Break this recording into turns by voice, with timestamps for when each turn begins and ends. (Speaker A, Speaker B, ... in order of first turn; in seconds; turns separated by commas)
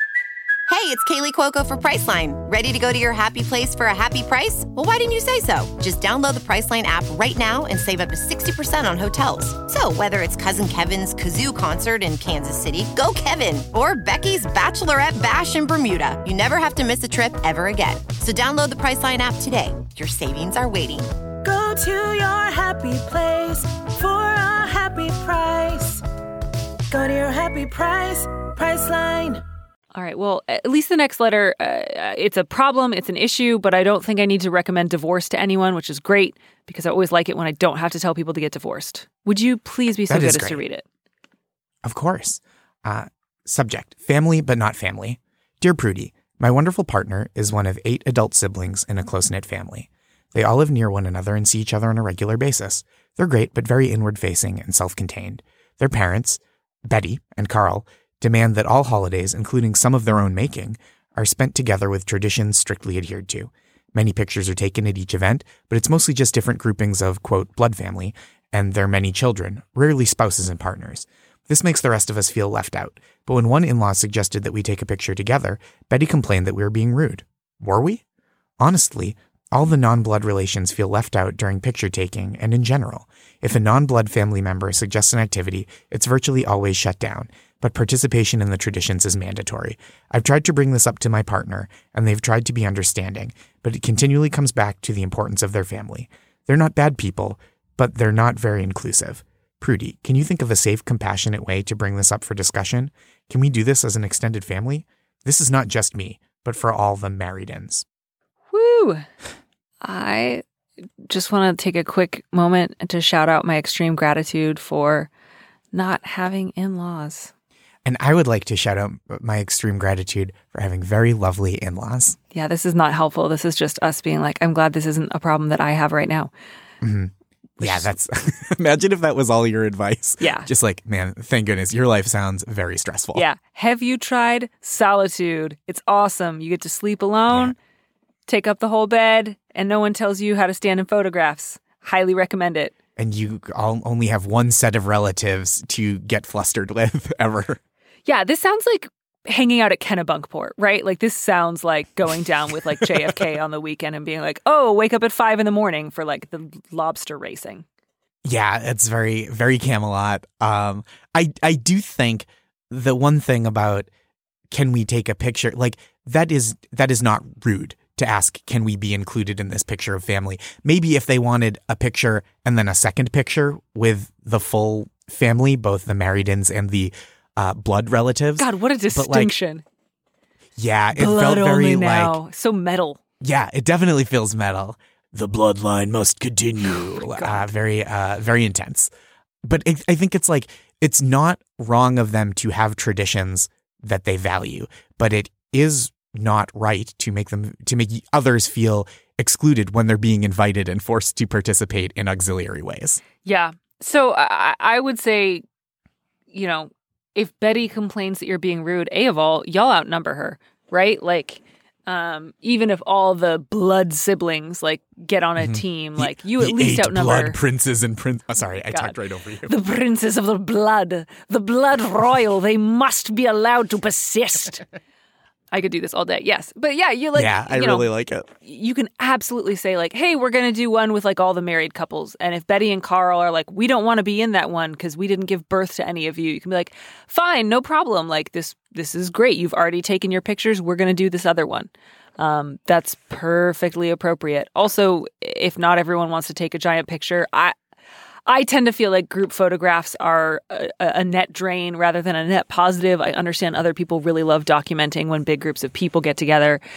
Speaker A: 0.7-21.1, Speaker B: 21.4-26.0, Speaker B: 26.9-29.4, Speaker C: 29.9-40.8, Speaker D: 40.1-40.6, Speaker D: 41.8-78.0, Speaker D: 78.6-107.8, Speaker C: 108.5-109.0, Speaker C: 109.8-110.4, Speaker C: 111.1-115.1, Speaker C: 115.7-117.3, Speaker D: 117.8-122.2, Speaker C: 122.3-126.3, Speaker D: 126.8-133.2, Speaker C: 127.6-127.9, Speaker C: 130.2-130.5, Speaker C: 133.1-137.5, Speaker D: 137.3-137.5, Speaker C: 138.3-142.7, Speaker D: 143.0-147.6, Speaker C: 148.1-157.6, Speaker D: 158.2-163.9, Speaker D: 164.5-179.3, Speaker C: 178.4-179.6, Speaker D: 180.6-182.2, Speaker C: 180.9-183.0, Speaker D: 183.2-188.9, Speaker C: 186.9-187.4, Speaker D: 189.4-203.0, Speaker C: 203.2-205.4, Speaker C: 206.3-217.4, Speaker D: 215.4-219.5, Speaker C: 218.7-224.6, Speaker C: 225.5-227.9, Speaker D: 227.1-228.3, Speaker C: 228.4-247.5, Speaker C: 248.2-256.6